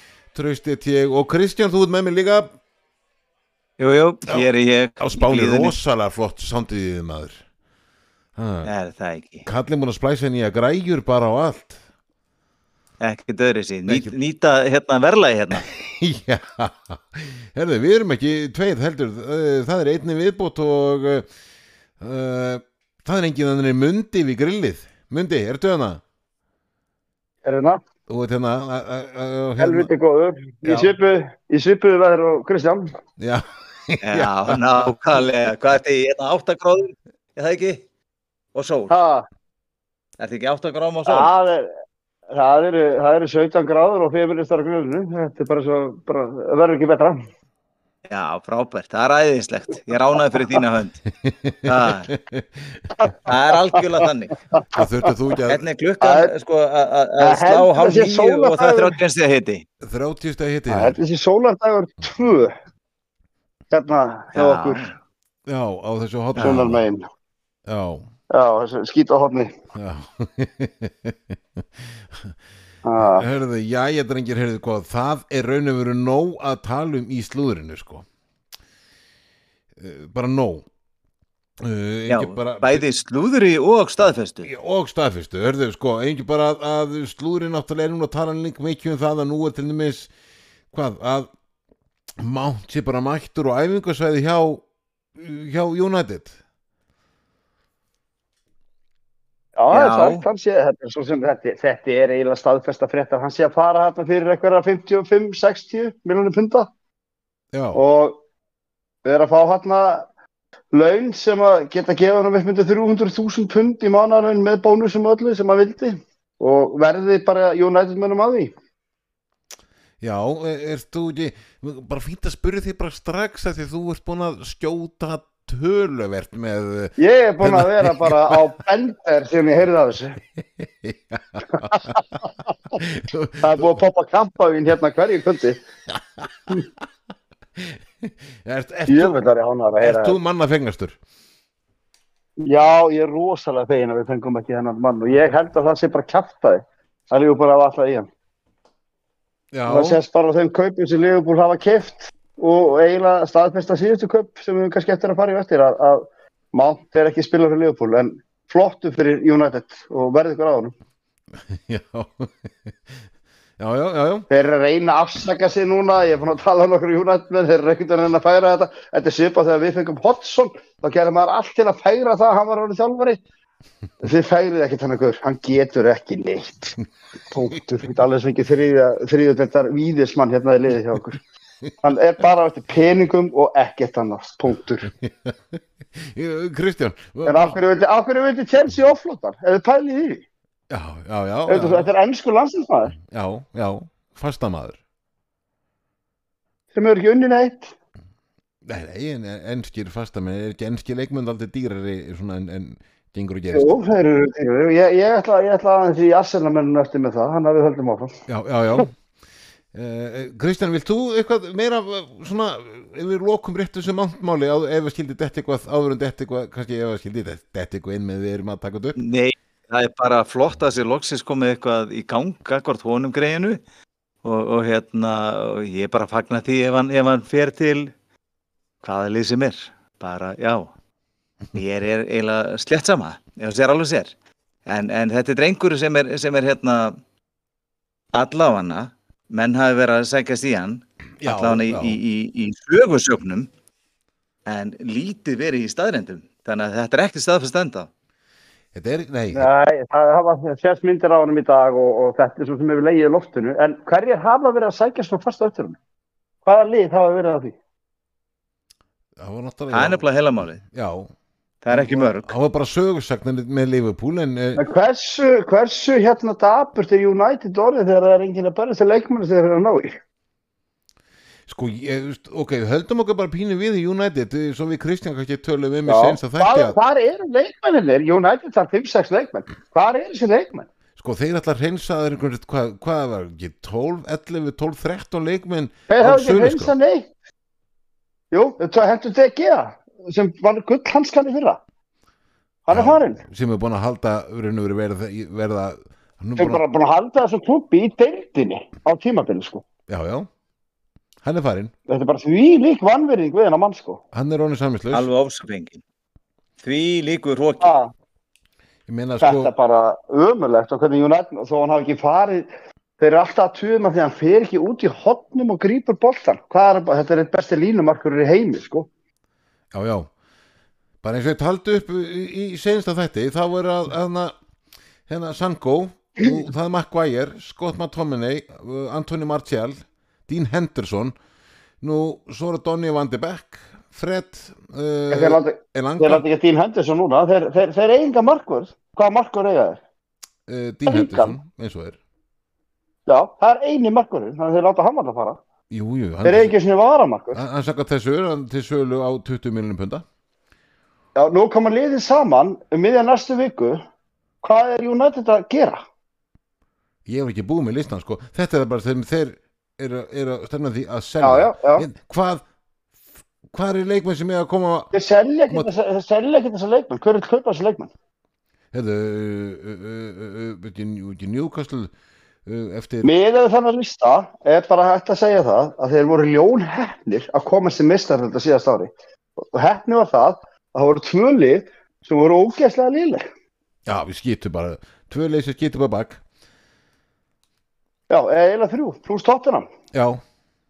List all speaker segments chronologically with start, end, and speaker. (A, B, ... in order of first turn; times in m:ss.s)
0:00.3-0:02.5 A
0:03.8-0:05.7 B
0:05.0-0:07.4 A
0:08.4-0:08.7 A
0:08.6-0:09.4 B
0:09.4-0:11.8 A
0:13.0-0:15.7 B
0:13.9-0:14.1 A
0:15.6-0:21.2 A
0:22.0-0:26.0 A
0:27.4-0:27.8 C
0:28.1-0:29.9 A
0:29.6-0:32.9 C
0:30.6-0:30.9 A
0:33.2-0:34.6 A
0:34.0-0:37.8 B
0:38.5-0:38.9 B
0:38.9-0:39.2 C
0:40.2-0:41.3 B
0:41.0-0:41.7 C
0:42.3-0:47.2 C
0:48.1-0:51.0 B
0:50.3-0:50.6 C
0:51.1-0:52.8 A
0:51.6-0:52.1 B
0:53.0-0:53.8 C
0:53.2-0:54.4 B
0:54.5-0:55.1 C
0:54.7-0:55.6 A
0:55.5-0:59.6 B
0:56.0-0:56.3 C
0:57.2-0:59.0 C
0:59.8-1:01.0 A
1:00.7-1:02.5 C
1:03.7-1:04.9 C
1:04.3-1:04.9 B
1:05.5-1:06.8 A
1:06.4-1:07.0 C
1:07.6-1:08.0 A
1:08.3-1:09.5 C
1:09.7-1:12.3 A
1:12.8-1:13.3 C
1:13.0-1:18.0 A
1:19.8-1:20.6 A
1:21.6-1:22.8 A
1:22.1-1:24.5 B
1:24.4-1:30.1 A
1:30.7-1:31.3 A
1:32.2-1:34.6 A
1:35.2-1:36.3 A
1:39.6-1:46.7 C
1:39.7-1:40.2 B
1:47.5-1:47.8 A
1:47.7-1:48.2 C
1:49.0-1:50.0 C
1:50.7-1:58.5 C
2:00.0-2:08.4 A
2:07.0-2:10.2 C
2:10.4-2:12.2 A
2:11.5-2:12.2 C
2:12.7-2:13.7 A
2:13.4-2:15.6 C
2:15.9-2:16.5 A
2:17.6-2:19.2 A
2:18.9-2:20.2 C
2:19.8-2:21.0 A
2:22.4-2:28.1 C
2:29.5-2:30.0 A
2:29.7-2:40.7 C
2:41.4-2:43.0 A
2:43.6-2:44.3 A
2:44.3-2:53.2 C
2:54.0-2:56.8 C
2:57.3-3:01.2 C
3:01.8-3:04.9 C
3:05.0-3:07.6 A
3:07.2-3:10.2 C
3:10.7-3:11.9 A
3:11.5-3:13.0 C
3:13.0-3:14.8 A
3:16.7-3:17.7 C
3:18.6-3:23.9 A
3:23.5-3:28.2 C
3:28.3-3:28.9 A
3:29.7-3:39.0 A
3:39.0-3:43.6 B
3:44.2-3:47.9 B
3:48.8-3:50.7 B
3:51.5-3:54.1 B
3:54.7-3:57.0 B
3:58.1-4:03.5 B
4:01.2-4:02.0 A
4:04.4-4:07.9 B
4:08.7-4:09.5 A
4:09.3-4:15.8 C
4:16.4-4:17.6 C
4:19.2-4:20.0 A
4:19.7-4:20.6 B
4:20.6-4:21.1 A
4:21.6-4:22.3 B
4:21.7-4:24.6 A
4:24.6-4:30.0 C
4:31.5-4:36.8 A
4:35.8-4:40.7 C
4:41.0-4:46.7 A
4:45.9-4:47.1 C
4:48.3-4:51.6 C
4:52.7-4:53.2 C
4:52.7-4:56.6 A
4:56.4-4:59.6 C
4:59.9-5:00.3 A
5:01.2-5:01.7 A
5:01.9-5:04.0 C
5:04.1-5:05.1 A
5:04.9-5:05.8 B
5:06.6-5:07.7 B
5:07.6-5:07.9 C
5:08.9-5:09.5 A
5:09.2-5:12.5 C
5:13.0-5:18.9 C
5:19.7-5:20.1 A
5:21.0-5:24.3 A
5:25.1-5:29.8 A
5:30.3-5:31.1 A
5:31.8-5:36.2 A
5:35.1-5:39.8 C
5:40.5-5:42.0 A
5:40.9-5:41.4 C
5:43.1-5:45.4 C
5:45.7-5:46.5 A
5:46.2-5:47.4 C
5:47.3-5:50.0 A
5:51.2-5:53.8 C
5:54.4-5:55.8 C
5:57.0-6:02.4 A
6:01.2-6:01.9 C
6:03.5-6:04.9 A
6:04.9-6:07.9 C
6:08.7-6:11.9 A
6:12.4-6:13.1 A
6:13.0-6:23.2 C
6:23.8-6:26.2 A
6:28.1-6:29.7 C
6:29.9-6:30.2 A